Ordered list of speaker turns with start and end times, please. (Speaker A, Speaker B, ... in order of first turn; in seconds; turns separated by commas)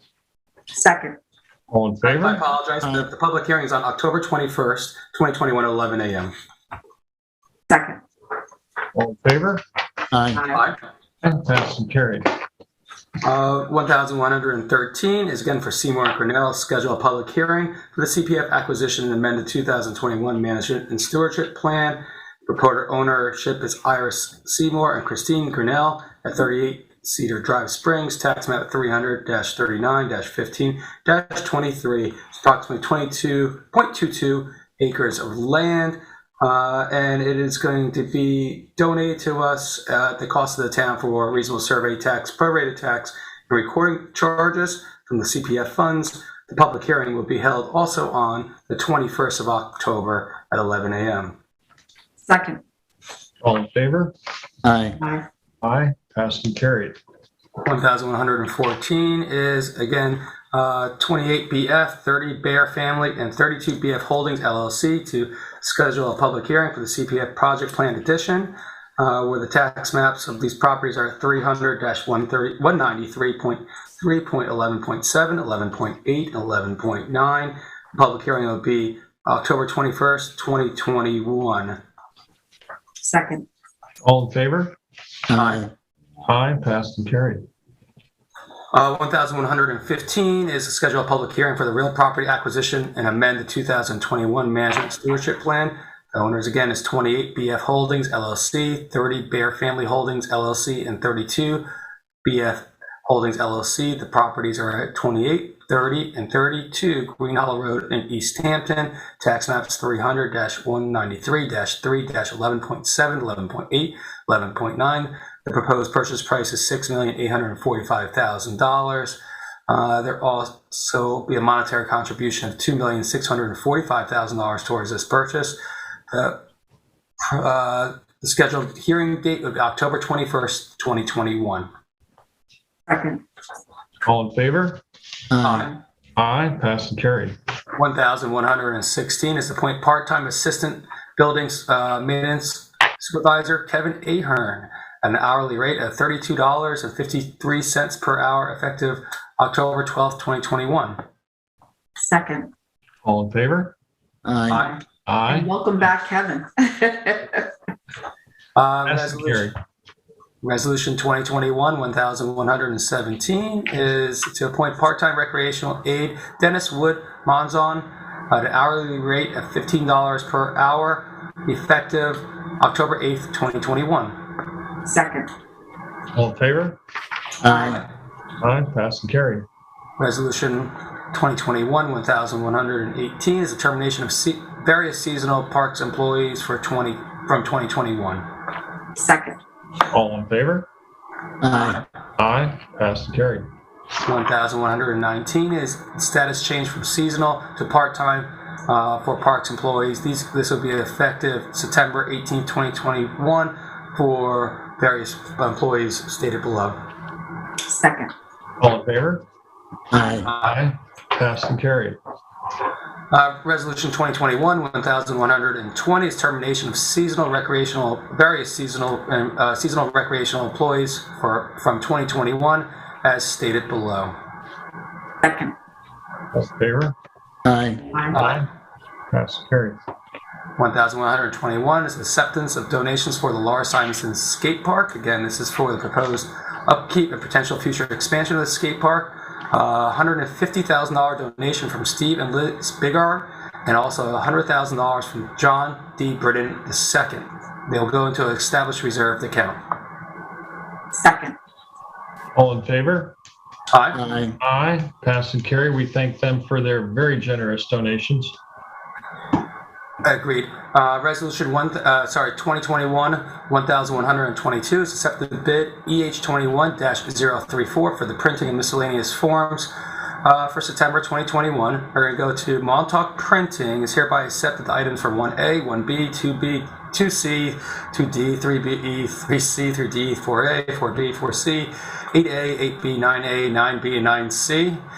Speaker A: 0.7-1.2, Speaker B: 1.7-2.4, Speaker C: 2.0-6.3, Speaker D: 2.8-3.1, Speaker A: 7.7-8.0, Speaker B: 8.9-9.6, Speaker D: 10.1-10.4, Speaker A: 10.3-10.6, Speaker C: 10.5-10.8, Speaker B: 11.2-12.3, Speaker C: 13.2-51.4, Speaker A: 52.2-52.6, Speaker B: 53.4-54.1, Speaker D: 54.6-55.0, Speaker A: 55.0-55.3, Speaker B: 55.6-57.0, Speaker C: 57.6-81.8, Speaker A: 83.0-83.5, Speaker B: 84.0-84.8, Speaker D: 85.3-85.7, Speaker C: 85.3-85.6, Speaker B: 86.2-87.4, Speaker C: 88.7-101.7, Speaker C: 102.2-125.6, Speaker C: 126.1-126.4, Speaker C: 127.2-131.7, Speaker A: 132.9-133.2, Speaker B: 134.1-134.8, Speaker D: 135.3-135.7, Speaker C: 135.4-135.8, Speaker B: 136.2-137.3, Speaker C: 137.7-151.0, Speaker A: 152.0-152.5, Speaker B: 153.0-153.7, Speaker D: 154.2-154.7, Speaker C: 154.5-154.8, Speaker A: 154.5-157.5, Speaker B: 155.1-155.5, Speaker C: 158.6-159.5, Speaker B: 158.8-159.5, Speaker C: 160.4-174.2, Speaker A: 174.8-175.3, Speaker B: 176.1-176.8, Speaker D: 177.4-177.8, Speaker A: 177.4-177.8, Speaker B: 178.4-179.4, Speaker C: 180.0-188.2, Speaker A: 189.0-189.4, Speaker B: 189.9-190.7, Speaker D: 191.4-191.8, Speaker B: 192.2-193.5, Speaker C: 194.0-206.8, Speaker A: 207.7-208.1, Speaker B: 208.6-209.2, Speaker D: 209.9-210.3, Speaker C: 210.2-210.5, Speaker B: 210.4-212.0, Speaker C: 213.1-224.1, Speaker A: 225.2-225.5, Speaker B: 226.3-226.9, Speaker D: 227.4-227.8, Speaker A: 227.9-228.2, Speaker C: 228.1-228.4, Speaker B: 228.1-228.5, Speaker B: 229.1-229.8, Speaker C: 230.6-249.6, Speaker A: 250.9-251.3, Speaker B: 252.3-253.2, Speaker C: 253.7-254.0, Speaker D: 253.9-254.4, Speaker B: 254.4-258.4, Speaker C: 260.0-269.7, Speaker C: 270.2-284.8